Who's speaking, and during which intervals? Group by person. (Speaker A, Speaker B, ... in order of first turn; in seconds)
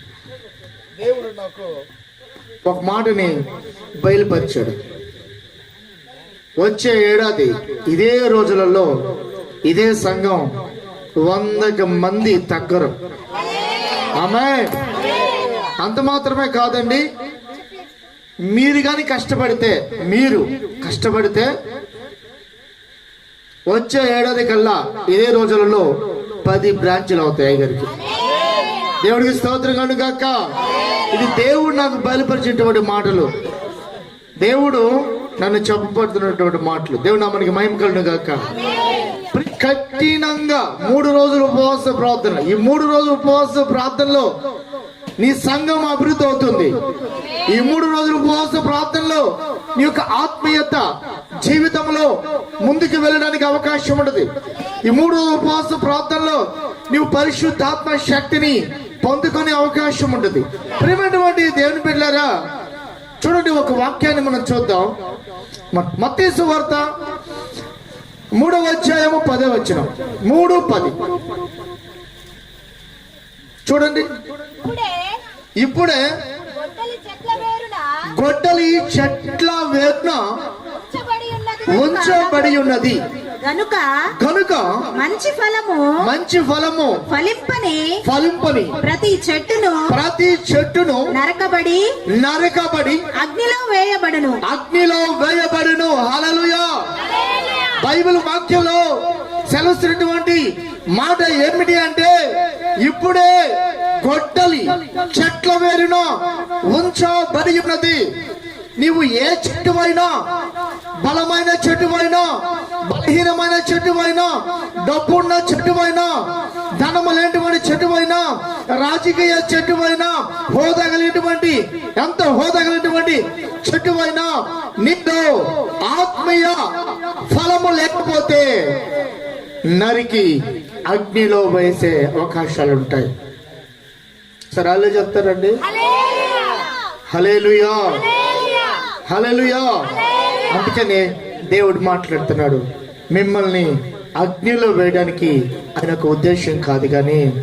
Speaker A: 2.6-3.4, 4.0-4.8, 6.6-8.9, 9.7-10.5, 11.2-12.9, 14.2-14.8, 15.8-17.0, 18.5-21.5, 23.7-25.9, 26.4-27.9, 29.0-30.4, 31.1-33.3, 34.4-38.5, 39.3-44.3, 45.2-46.7, 47.5-50.8, 51.4-52.1, 52.6-54.3, 54.8-62.3, 63.2-64.9, 65.7-66.9, 68.4-71.0, 73.7-74.1, 75.6-76.0, 78.2-80.2, 81.7-83.0, 84.2-84.8, 86.0-87.0, 88.0-88.8, 89.9-91.1, 92.2-93.0, 94.4-96.7, 97.8-98.8, 99.5-102.2, 102.8-103.3, 104.0-106.1, 106.7-108.0, 108.8-110.1, 111.0-112.3, 112.9-114.3, 114.8-116.1, 116.8-124.3, 124.8-126.6, 127.3-128.7, 129.7-130.3, 130.9-133.1, 134.5-135.6, 137.1-138.0, 139.1-139.9, 140.5-147.3
Speaker B: 74.6-75.2, 76.5-78.0, 80.9-82.6, 83.4-84.0, 85.0-86.0, 87.1-88.0, 88.8-89.9, 91.1-91.9, 93.2-94.4